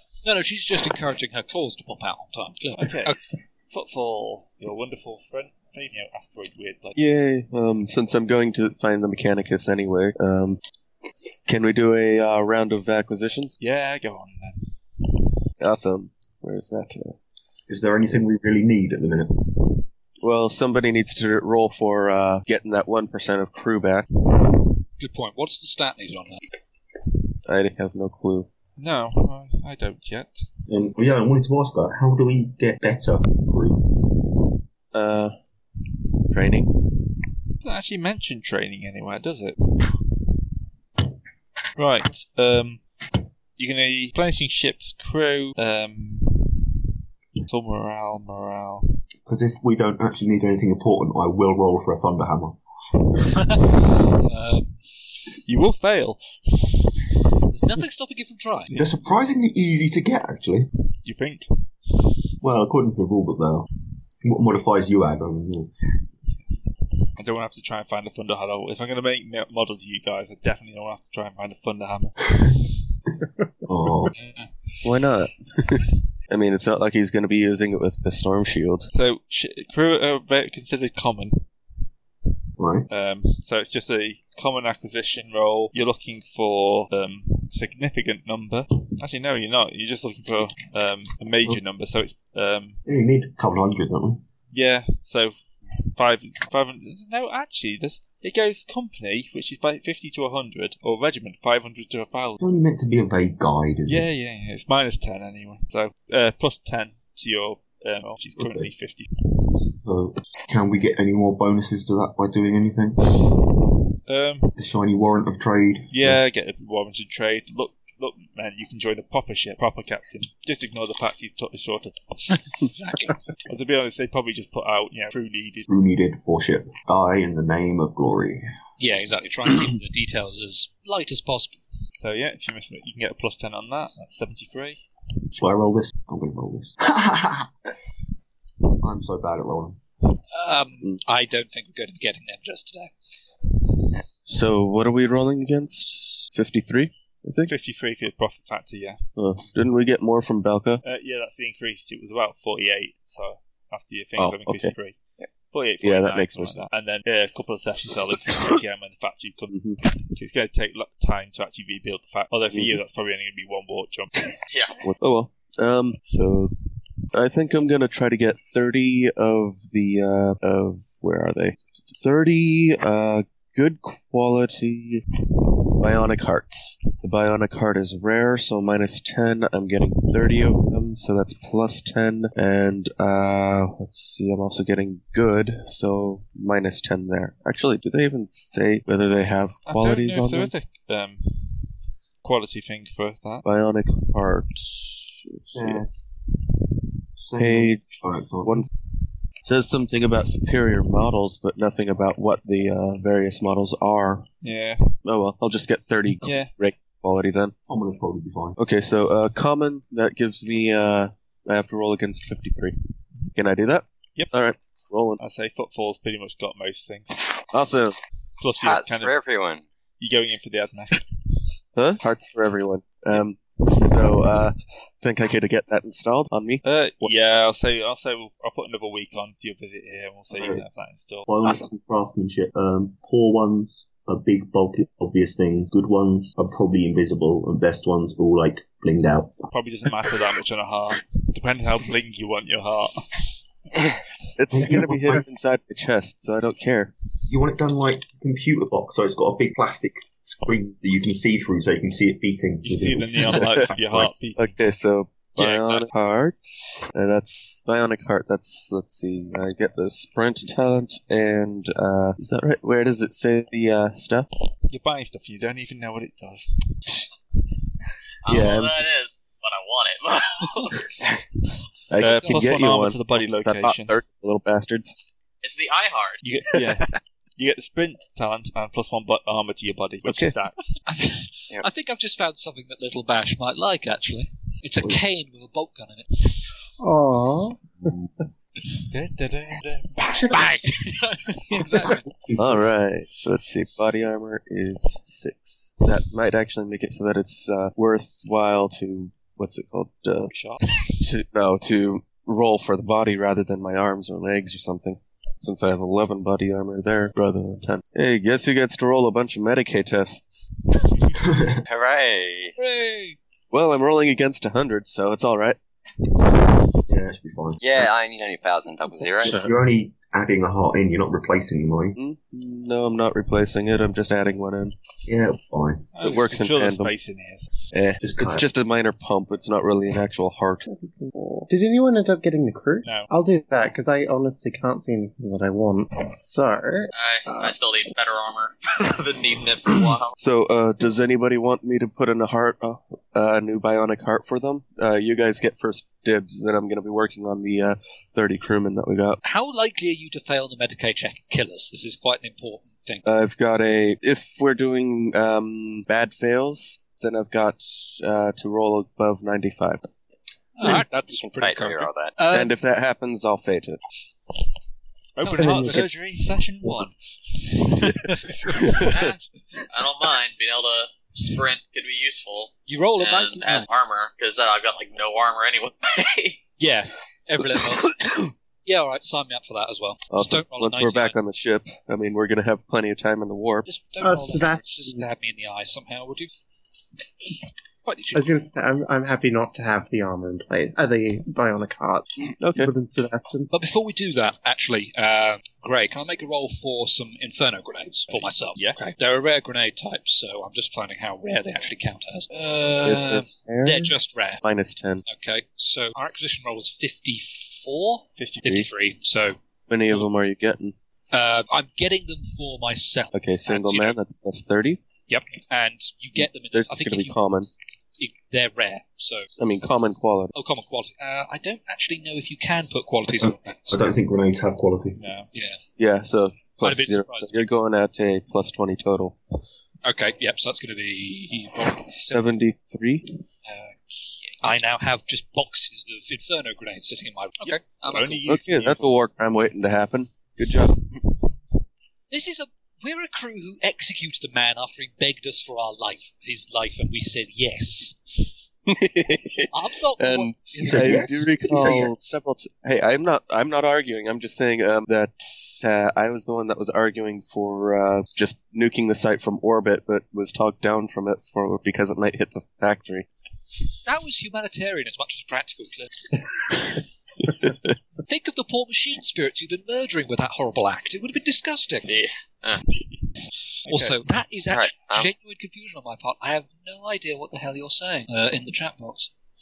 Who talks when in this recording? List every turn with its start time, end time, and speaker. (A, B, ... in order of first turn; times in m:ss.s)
0:00.2-0:03.2 A
0:02.8-0:03.2 B
0:03.7-0:07.0 B
0:07.0-0:10.6 C
0:11.1-0:13.6 C
0:13.6-0:14.7 B
0:15.6-0:17.2 C
0:17.7-0:19.7 D
0:20.2-0:24.0 C
0:25.0-0:26.4 A
0:27.4-0:28.5 C
0:28.8-0:30.4 B
0:30.7-0:34.0 D
0:34.9-0:35.3 C
0:36.3-0:36.7 C
0:37.6-0:40.0 B
0:41.8-0:42.8 B
0:43.6-0:46.6 B
0:47.4-0:49.0 B
0:49.2-0:52.6 D
0:53.3-0:54.8 A
0:55.4-0:56.2 B
0:57.5-0:58.7 A
0:58.7-0:59.0 B
0:58.8-1:00.7 D
1:01.0-1:01.5 B
1:02.4-1:03.7 D
1:04.2-1:05.7 D
1:06.3-1:06.6 B
1:07.2-1:12.6 B
1:13.6-1:14.1 D
1:14.8-1:18.9 C
1:18.9-1:21.4 B
1:22.6-1:22.9 D
1:22.9-1:32.8 B
1:32.8-1:34.2 D
1:34.5-1:35.4 B
1:36.0-1:42.4 B
1:42.4-1:44.1 D
1:43.8-1:49.1 B
1:48.4-1:48.7 D
1:49.7-1:53.1 D
1:54.1-1:54.5 B
1:54.6-1:56.2 D
1:55.9-2:02.0 B
2:02.3-2:03.2 A
2:03.4-2:05.6 B
2:05.7-2:08.4 D
2:08.8-2:11.6 A
2:12.0-2:14.8 B
2:15.3-2:17.5 D
2:18.8-2:19.8 D
2:20.3-2:22.9 A
2:24.2-2:27.5 C
2:27.4-2:29.0 B
2:29.2-2:30.8 C
2:30.8-2:35.0 B
2:34.2-2:34.7 C
2:35.5-2:44.3 B
2:35.8-2:36.6 C
2:38.3-2:38.6 C
2:39.5-2:39.8 C
2:42.5-2:42.8 C
2:44.5-2:44.8 E
2:44.8-2:46.5 C
2:47.1-2:55.0 C
2:55.7-3:10.5 C
3:09.6-3:11.6 B
3:12.2-3:13.4 B
3:13.4-3:15.8 C
3:15.5-3:15.9 D
3:17.2-3:18.6 D
3:17.4-3:18.7 C
3:19.4-3:24.3 C
3:24.4-3:25.0 B
3:25.0-3:27.5 C
3:26.2-3:26.5 B
3:27.7-3:28.6 D
3:28.6-3:32.8 C
3:33.3-3:35.2 C
3:35.2-3:37.1 B
3:37.5-3:38.0 C
3:38.4-3:39.1 B
3:38.6-3:39.6 F
3:40.0-3:41.1 B
3:41.8-3:47.1 C
3:46.6-3:51.3 B
3:50.3-3:50.6 D
3:51.2-3:59.5 D
3:59.5-4:03.1 B
4:04.4-4:06.9 C
4:04.5-4:05.2 D
4:07.3-4:13.7 D
4:12.6-4:14.5 B
4:13.3-4:24.3 C
4:15.3-4:15.8 B
4:24.7-4:26.7 B
4:28.2-4:30.8 E
4:28.3-4:28.9 C
4:31.9-4:34.9 C
4:31.9-4:34.0 B
4:32.2-4:32.5 A
4:35.4-4:36.2 E
4:36.2-4:40.6 B
4:36.5-4:36.8 C
4:40.0-4:40.3 C
4:40.8-4:46.1 A
4:46.8-4:48.0 G
4:48.9-4:50.6 B
4:50.0-4:50.6 G
4:50.1-4:52.0 A
4:52.2-4:52.7 D
4:52.4-5:00.3 C
5:00.3-5:00.6 B
5:01.0-5:10.5 C
5:11.2-5:11.6 D
5:11.6-5:12.5 F
5:12.6-5:13.2 A
5:13.5-5:15.6 C
5:16.8-5:17.6 D
5:17.6-5:19.4 F
5:19.2-5:19.5 G
5:19.2-5:22.0 D
5:22.0-5:24.7 C
5:25.0-5:25.9 D
5:25.9-5:27.5 B
5:26.0-5:26.9 C
5:27.7-5:30.6 C
5:28.0-5:28.4 D
5:30.6-5:37.5 G
5:32.8-5:33.1 B
5:36.9-5:40.1 E
5:40.2-5:49.2 C
5:49.2-5:53.0 A
5:53.0-5:59.8 C
6:00.6-6:02.5 A
6:01.1-6:02.1 F
6:02.3-6:03.8 C
6:05.2-6:06.9 B
6:05.2-6:05.8 A
6:05.4-6:05.9 G
6:07.5-6:09.3 B
6:07.6-6:08.8 A
6:08.5-6:09.1 C
6:08.9-6:09.1 E
6:09.7-6:16.4 E
6:12.7-6:13.7 A
6:16.6-6:17.9 A
6:18.0-6:18.3 C
6:18.6-6:21.2 A
6:20.1-6:23.6 C
6:23.6-6:26.3 A
6:24.0-6:25.0 G
6:27.8-6:28.4 A
6:28.1-6:33.5 G
6:32.4-6:32.7 C
6:33.5-6:44.4 A
6:38.1-6:38.8 B
6:42.8-6:45.0 C
6:45.0-6:49.4 A
6:48.2-6:48.6 B
6:49.7-6:50.7 C
6:51.1-6:54.0 A
6:53.1-6:54.8 C
6:55.1-6:57.2 A
6:56.2-6:57.5 C
6:58.0-6:59.3 A
6:59.4-7:00.3 C
7:00.3-7:03.9 A
7:03.7-7:05.0 D
7:05.0-7:05.3 B
7:05.3-7:05.6 A
7:05.8-7:09.2 C
7:06.6-7:07.5 A
7:09.8-7:12.3 A
7:11.8-7:13.1 C
7:13.4-7:13.8 A
7:14.4-7:18.2 A
7:17.5-7:19.0 B
7:18.3-7:20.8 C
7:22.1-7:28.0 A
7:28.6-7:43.0 C
7:29.5-7:31.9 A
7:30.6-7:31.9 D
7:43.8-7:45.9 A
7:47.3-7:47.6 C
7:48.0-7:51.9 A
7:51.8-7:52.7 E
7:53.7-7:54.0 B
7:53.7-7:59.1 A
7:54.5-7:55.1 F